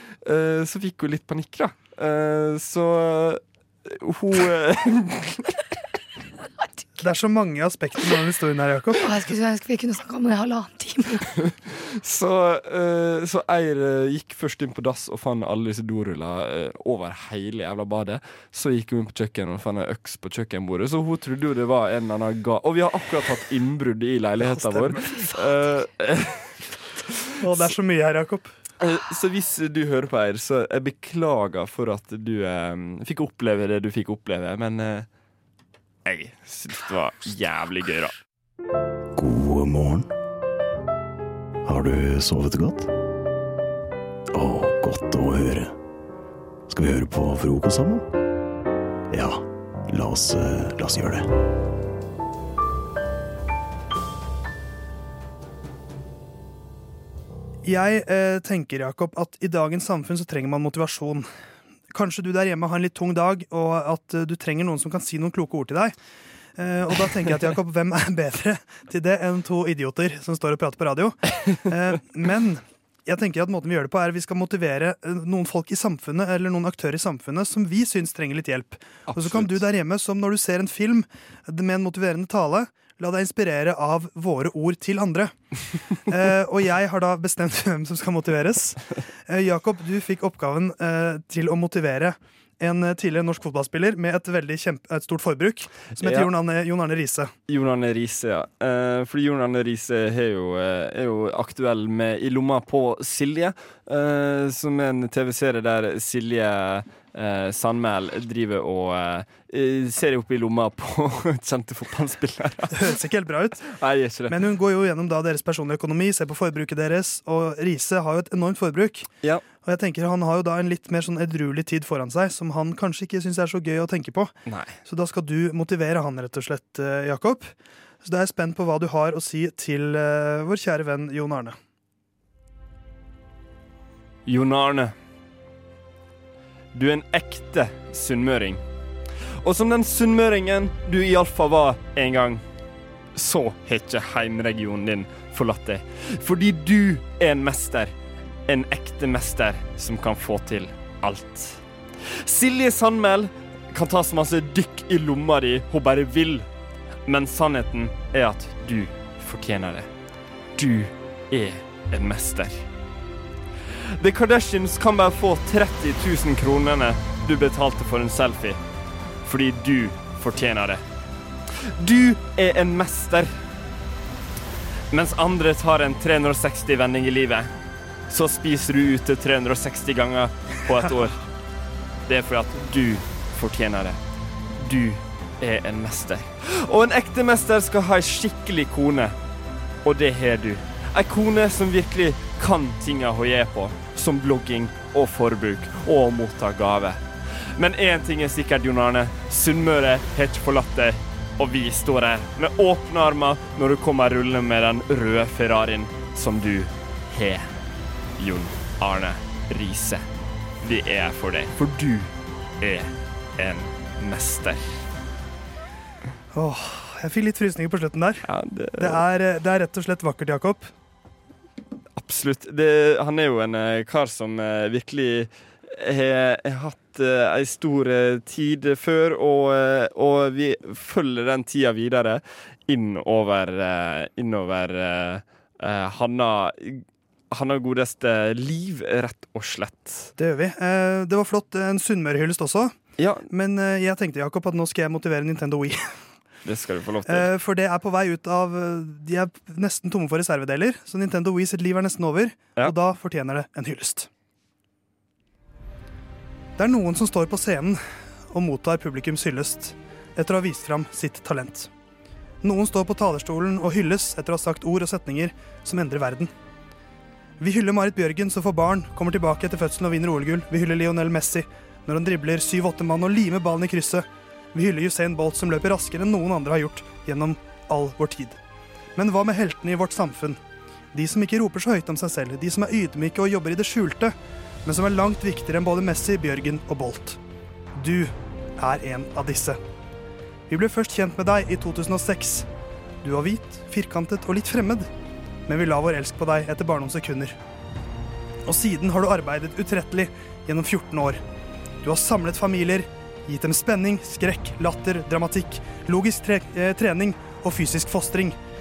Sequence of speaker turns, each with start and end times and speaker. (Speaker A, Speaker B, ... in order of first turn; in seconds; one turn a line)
Speaker A: 0.2-5.5
Speaker B: 7.0-9.1
Speaker C: 9.0-11.2
Speaker A: 11.4-26.4
Speaker B: 24.4-25.1
Speaker B: 27.4-28.5
Speaker A: 28.8-35.1
Speaker A: 36.1-38.1
Speaker D: 39.2-40.1
Speaker D: 41.7-42.9
Speaker D: 44.3-45.7
Speaker D: 46.7-48.0
Speaker D: 49.1-51.2
Speaker B: 57.6-61.3
Speaker B: 61.9-66.0
Speaker B: 66.6-85.3
Speaker A: 79.1-79.7
Speaker B: 86.1-97.3
Speaker A: 96.0-96.3
Speaker A: 97.5-112.9
Speaker B: 112.7-113.7
Speaker A: 113.7-114.4
Speaker B: 114.3-119.1
Speaker B: 119.6-124.3
Speaker A: 124.5-124.8
Speaker B: 124.9-127.5
Speaker B: 128.0-131.6
Speaker A: 134.3-134.9
Speaker A: 136.7-138.6
Speaker A: 139.4-142.4
Speaker A: 143.2-147.9
Speaker A: 148.5-156.5
Speaker A: 157.1-159.9
Speaker A: 160.6-162.7
Speaker A: 164.0-168.6
Speaker A: 169.2-170.8
Speaker A: 171.6-173.3
Speaker A: 174.9-177.5
Speaker A: 178.1-181.2
Speaker A: 182.1-184.0
Speaker A: 184.6-189.2
Speaker A: 189.8-197.0
Speaker A: 197.6-207.5
Speaker A: 208.2-210.1
Speaker A: 210.6-214.7
Speaker B: 216.3-218.2
Speaker A: 218.2-219.0
Speaker B: 218.8-220.7
Speaker A: 222.0-240.1
Speaker B: 240.2-242.8
Speaker A: 243.0-243.3
Speaker B: 243.3-245.8
Speaker A: 246.4-247.3
Speaker B: 247.1-254.1
Speaker B: 256.6-257.8
Speaker B: 258.3-261.7
Speaker B: 262.4-266.3
Speaker B: 267.4-278.4
Speaker B: 279.0-280.4
Speaker B: 280.9-287.2
Speaker B: 287.8-289.6
Speaker B: 290.5-292.5
Speaker B: 293.0-294.9
Speaker B: 295.5-297.4
Speaker B: 298.5-301.2
Speaker B: 301.8-308.4